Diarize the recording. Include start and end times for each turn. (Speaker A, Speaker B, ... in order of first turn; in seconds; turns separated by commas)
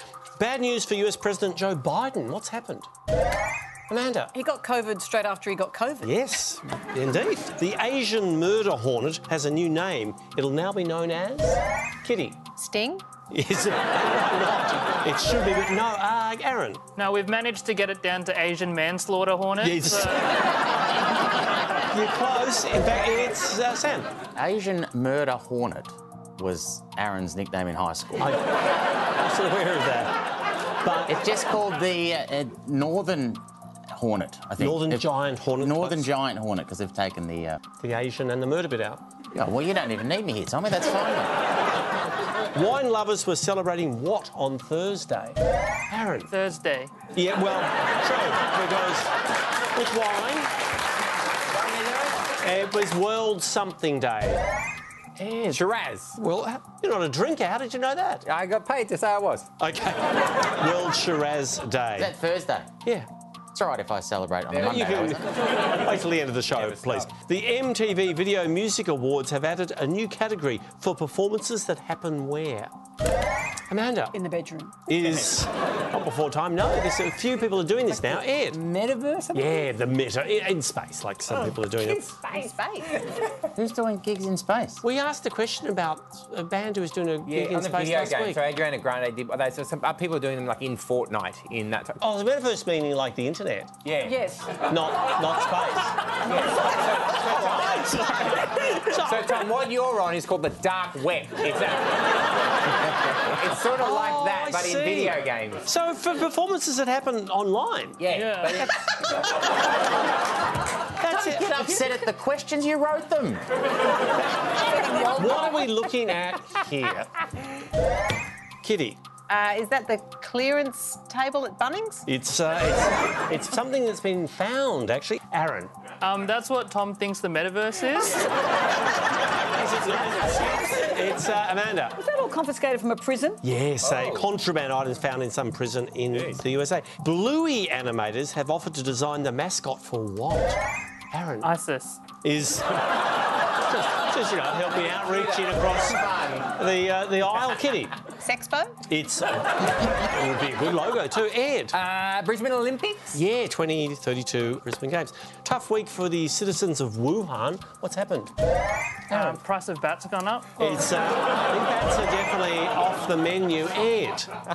Speaker A: 0.4-2.9, Speaker A: 3.9-4.3, Speaker B: 4.3-6.1, Speaker A: 6.0-12.4, Speaker C: 12.6-13.1, Speaker A: 13.3-16.8, Speaker D: 17.0-20.2, Speaker A: 19.6-20.2, Speaker A: 21.9-24.1, Speaker E: 24.3-28.4, Speaker A: 28.2-28.5, Speaker A: 29.1-30.1, Speaker A: 30.8-31.1, Speaker E: 31.1-37.6, Speaker A: 34.6-36.1, Speaker A: 37.8-39.0, Speaker E: 39.3-41.4, Speaker A: 42.5-45.4, Speaker A: 45.9-46.3, Speaker D: 46.3-46.9, Speaker A: 47.1-49.1, Speaker A: 49.7-50.5, Speaker F: 51.6-52.1, Speaker A: 52.4-54.4, Speaker A: 55.2-55.6, Speaker F: 55.5-56.2, Speaker A: 56.1-58.2, Speaker F: 58.2-59.5, Speaker A: 59.6-62.1, Speaker E: 62.0-62.8, Speaker E: 63.5-65.3, Speaker F: 64.5-65.3, Speaker A: 64.5-72.7, Speaker F: 66.5-67.1, Speaker A: 73.7-74.1, Speaker B: 74.1-74.8, Speaker A: 74.9-78.6, Speaker F: 78.0-79.7, Speaker A: 79.3-82.0, Speaker F: 81.8-82.9, Speaker C: 82.2-82.7, Speaker E: 83.5-84.8, Speaker A: 84.8-88.4, Speaker F: 87.2-92.0, Speaker A: 92.0-93.7, Speaker F: 93.8-94.2, Speaker B: 94.0-94.5, Speaker A: 94.7-96.0, Speaker F: 96.2-102.2, Speaker A: 97.1-99.5, Speaker F: 102.8-105.7, Speaker A: 103.8-108.0, Speaker F: 108.0-109.0, Speaker D: 108.1-108.7, Speaker A: 111.0-111.7, Speaker E: 111.1-113.4, Speaker A: 115.1-117.1, Speaker A: 118.6-119.0, Speaker C: 119.3-122.0, Speaker A: 122.1-125.7, Speaker D: 126.0-128.3, Speaker A: 129.5-132.0, Speaker B: 131.9-133.4, Speaker A: 133.4-140.6, Speaker F: 133.9-134.2, Speaker F: 136.1-136.4, Speaker A: 141.1-141.5, Speaker D: 141.4-142.0, Speaker A: 142.2-142.7, Speaker A: 143.6-147.9, Speaker F: 145.1-146.5, Speaker C: 148.2-148.8, Speaker A: 148.9-151.8, Speaker F: 151.7-153.2, Speaker A: 153.1-158.3, Speaker A: 159.1-159.4, Speaker D: 159.1-160.9, Speaker A: 160.6-164.3